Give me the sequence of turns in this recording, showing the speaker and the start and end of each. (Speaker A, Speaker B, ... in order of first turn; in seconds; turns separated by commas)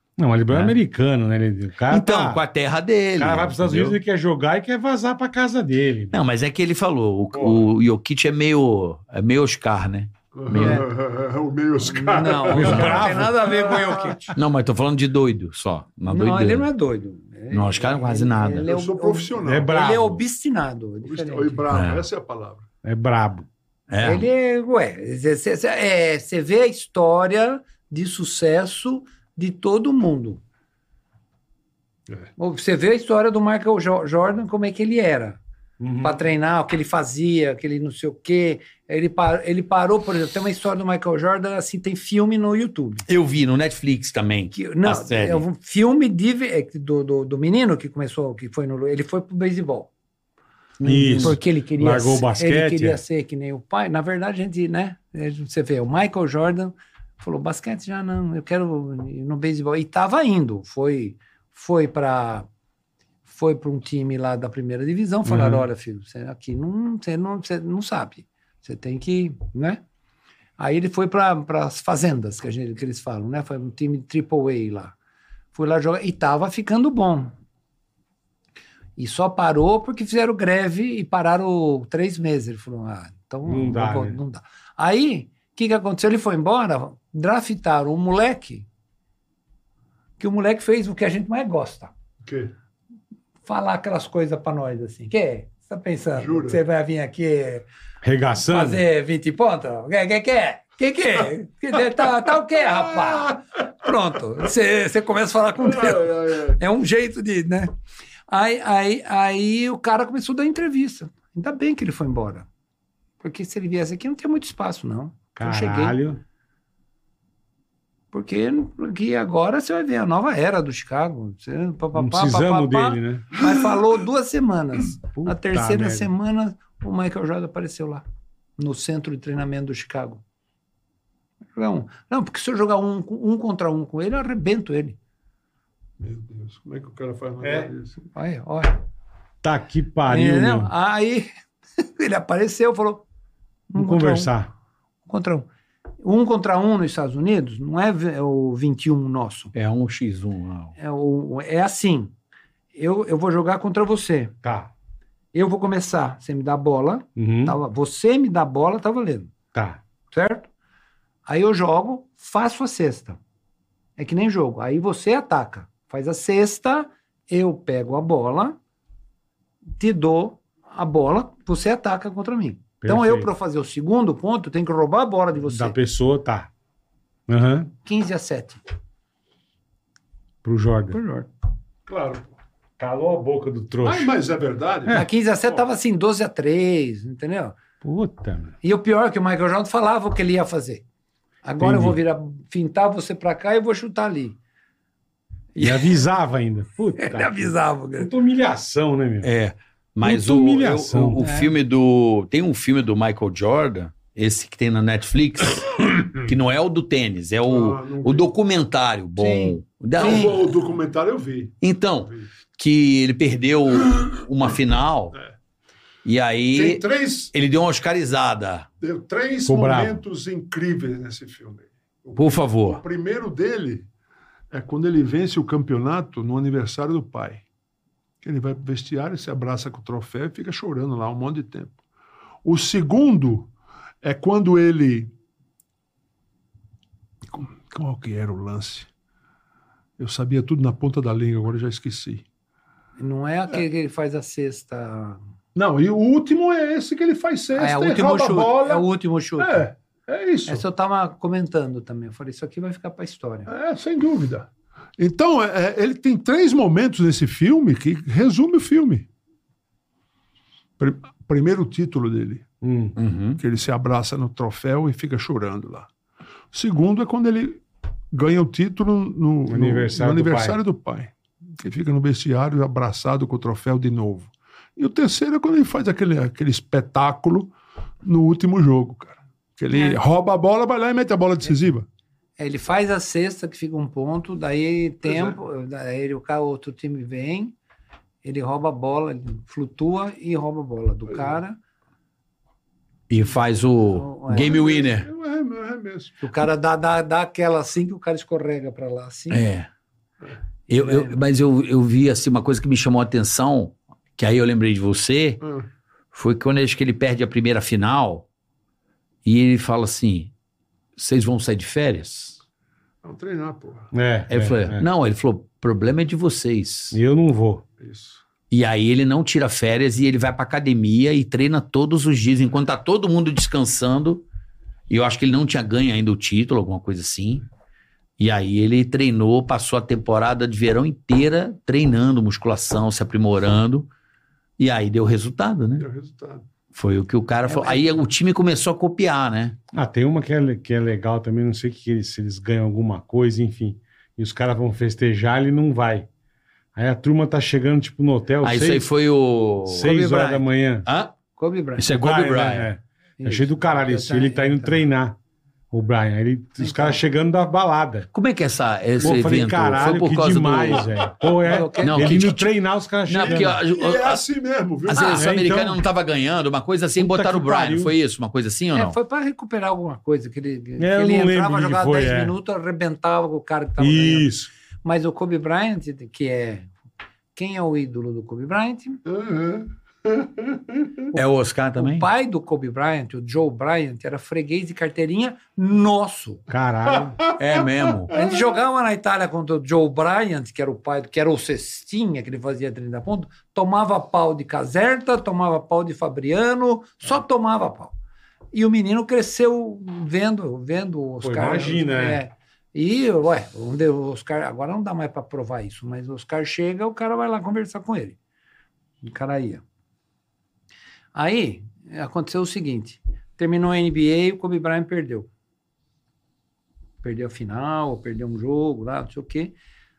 Speaker A: 0.2-2.4, Speaker B: 0.5-0.7, Speaker B: 1.9-4.0, Speaker A: 3.2-6.2, Speaker B: 6.1-10.8, Speaker A: 7.3-7.7, Speaker C: 10.3-14.1, Speaker D: 10.6-10.8, Speaker D: 11.8-14.3, Speaker A: 12.5-13.4, Speaker B: 12.6-12.9, Speaker B: 14.3-16.7, Speaker D: 16.1-21.6, Speaker B: 17.5-18.7, Speaker C: 18.6-19.8, Speaker A: 19.4-20.2, Speaker C: 21.0-22.6, Speaker B: 21.7-22.1, Speaker A: 22.8-23.5, Speaker B: 23.9-24.3, Speaker D: 24.0-30.4, Speaker D: 32.4-35.4, Speaker A: 35.8-36.2, Speaker D: 36.0-43.0, Speaker B: 43.1-45.4, Speaker D: 44.5-49.9, Speaker B: 50.8-51.4, Speaker A: 50.8-53.0, Speaker D: 51.2-62.5, Speaker D: 63.2-69.8, Speaker A: 65.3-65.6, Speaker D: 70.6-74.9, Speaker D: 75.5-77.3, Speaker D: 79.0-88.7, Speaker A: 83.5-84.2, Speaker D: 90.2-91.9, Speaker C: 92.2-92.5, Speaker D: 93.4-97.7, Speaker C: 96.2-96.6, Speaker A: 98.0-98.8, Speaker D: 98.4-107.7, Speaker C: 105.6-106.6, Speaker D: 108.3-112.5, Speaker D: 113.2-116.0, Speaker A: 115.4-116.2, Speaker D: 118.1-128.0, Speaker A: 121.9-123.4, Speaker A: 125.2-126.1, Speaker D: 128.6-130.2, Speaker D: 131.6-135.0, Speaker C: 136.0-138.0, Speaker A: 137.4-137.7, Speaker D: 138.1-138.8, Speaker A: 139.4-140.7, Speaker D: 140.1-143.0, Speaker D: 143.7-144.3, Speaker A: 143.8-144.5, Speaker D: 145.1-145.5, Speaker D: 146.0-149.5, Speaker B: 149.5-150.7, Speaker D: 150.8-152.1, Speaker D: 152.7-154.3, Speaker A: 154.4-154.7, Speaker D: 155.3-159.3, Speaker A: 157.2-157.5, Speaker A: 159.5-159.8, Speaker D: 160.1-160.5, Speaker D: 161.2-163.2, Speaker D: 164.0-168.6, Speaker D: 169.8-175.8, Speaker A: 172.8-173.3, Speaker A: 175.4-176.5, Speaker A: 177.3-177.7, Speaker D: 177.8-178.6, Speaker A: 180.4-181.0, Speaker D: 180.9-181.3, Speaker C: 181.8-182.3, Speaker A: 182.8-184.1, Speaker C: 183.8-185.6, Speaker D: 184.9-187.6, Speaker A: 187.8-188.5, Speaker D: 188.6-190.8, Speaker D: 191.4-194.4, Speaker A: 191.6-192.0, Speaker D: 195.5-196.0, Speaker A: 195.6-197.4, Speaker D: 197.0-198.1, Speaker A: 198.0-199.3, Speaker B: 199.2-210.4, Speaker A: 200.0-201.2, Speaker D: 201.2-201.5, Speaker C: 207.4-208.3, Speaker D: 209.2-210.4, Speaker C: 209.9-212.3, Speaker B: 211.6-215.2, Speaker B: 216.0-218.7, Speaker C: 216.5-217.3, Speaker C: 218.8-223.9, Speaker A: 219.4-220.0, Speaker B: 222.2-222.8, Speaker C: 224.5-227.4, Speaker C: 228.2-231.8, Speaker C: 232.4-233.5, Speaker C: 234.0-235.1, Speaker C: 237.3-238.9, Speaker C: 240.0-242.2, Speaker D: 243.0-245.2, Speaker C: 245.5-250.6, Speaker D: 247.5-249.7, Speaker D: 250.5-253.5, Speaker C: 253.5-259.1, Speaker C: 260.8-262.5, Speaker A: 262.6-262.9, Speaker B: 262.9-263.4, Speaker C: 263.4-265.9, Speaker C: 266.5-281.9, Speaker A: 269.5-270.6, Speaker D: 279.7-280.0, Speaker D: 282.4-287.5, Speaker C: 285.0-285.4, Speaker D: 288.2-291.6, Speaker B: 293.1-295.1, Speaker D: 293.9-294.6, Speaker C: 294.3-296.2, Speaker D: 296.2-299.4, Speaker B: 299.3-299.7, Speaker B: 300.7-305.4, Speaker D: 300.7-301.2, Speaker C: 305.4-305.7, Speaker B: 306.1-308.3, Speaker B: 309.2-310.3, Speaker B: 311.0-312.4, Speaker C: 313.0-313.9, Speaker A: 313.9-314.8, Speaker B: 314.3-317.0, Speaker A: 316.9-317.6, Speaker C: 317.8-318.2, Speaker B: 318.5-324.2, Speaker B: 324.9-327.4, Speaker B: 328.2-333.9, Speaker B: 334.6-335.9, Speaker C: 335.8-336.4, Speaker B: 336.7-339.6, Speaker D: 337.4-338.0, Speaker A: 339.7-346.1, Speaker A: 346.7-348.9, Speaker B: 348.4-350.0, Speaker A: 349.7-350.9, Speaker D: 349.8-350.4, Speaker B: 350.8-351.1, Speaker D: 351.3-351.9, Speaker B: 351.8-352.7, Speaker A: 351.9-355.2, Speaker D: 353.2-354.8, Speaker A: 355.7-358.1, Speaker D: 356.6-357.0, Speaker B: 358.1-360.9, Speaker A: 359.0-363.6, Speaker D: 361.4-362.4, Speaker B: 361.8-362.5, Speaker B: 363.1-364.2, Speaker C: 363.2-365.3, Speaker B: 364.9-368.9, Speaker D: 364.9-365.2, Speaker A: 365.1-365.8, Speaker A: 367.0-367.9, Speaker D: 368.7-374.3, Speaker A: 370.8-372.3, Speaker A: 373.8-374.5, Speaker D: 374.8-376.7, Speaker D: 377.3-379.0, Speaker C: 379.0-380.9, Speaker B: 381.1-382.1, Speaker D: 381.7-386.4, Speaker A: 386.5-387.2, Speaker B: 387.4-388.1, Speaker C: 388.1-388.4, Speaker D: 388.1-397.9, Speaker D: 398.5-408.2, Speaker A: 401.2-402.2, Speaker D: 409.0-409.6, Speaker D: 411.1-415.3, Speaker D: 417.0-419.5